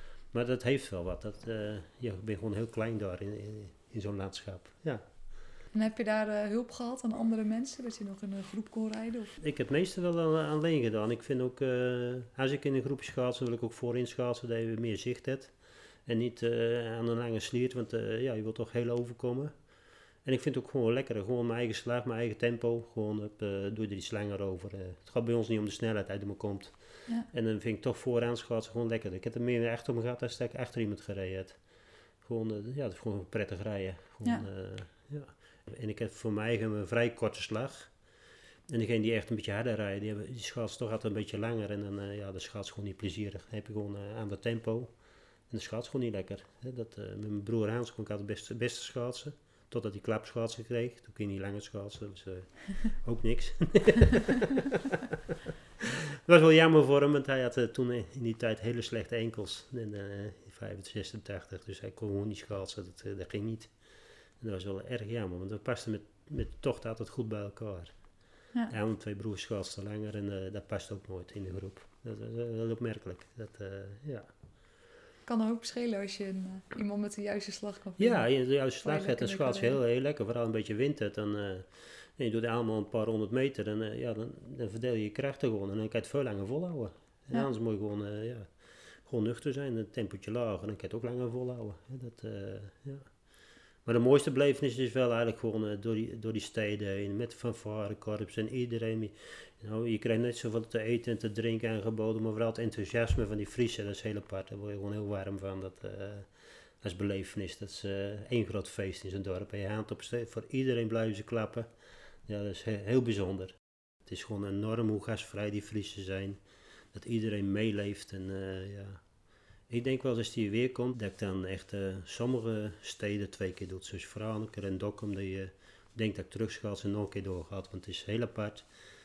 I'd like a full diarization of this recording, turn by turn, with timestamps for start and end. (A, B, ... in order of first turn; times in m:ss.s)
0:00.3-0:05.0 A
0:05.7-0:09.4 B
0:09.4-0:19.7 A
0:20.2-0:38.1 A
0:34.2-0:34.5 B
0:38.7-0:54.8 A
0:56.3-1:03.8 A
1:04.4-1:08.1 A
1:08.7-1:14.3 A
1:15.2-1:19.8 B
1:18.0-1:33.3 A
1:33.8-1:51.7 A
1:52.3-1:59.0 A
1:59.7-2:08.7 A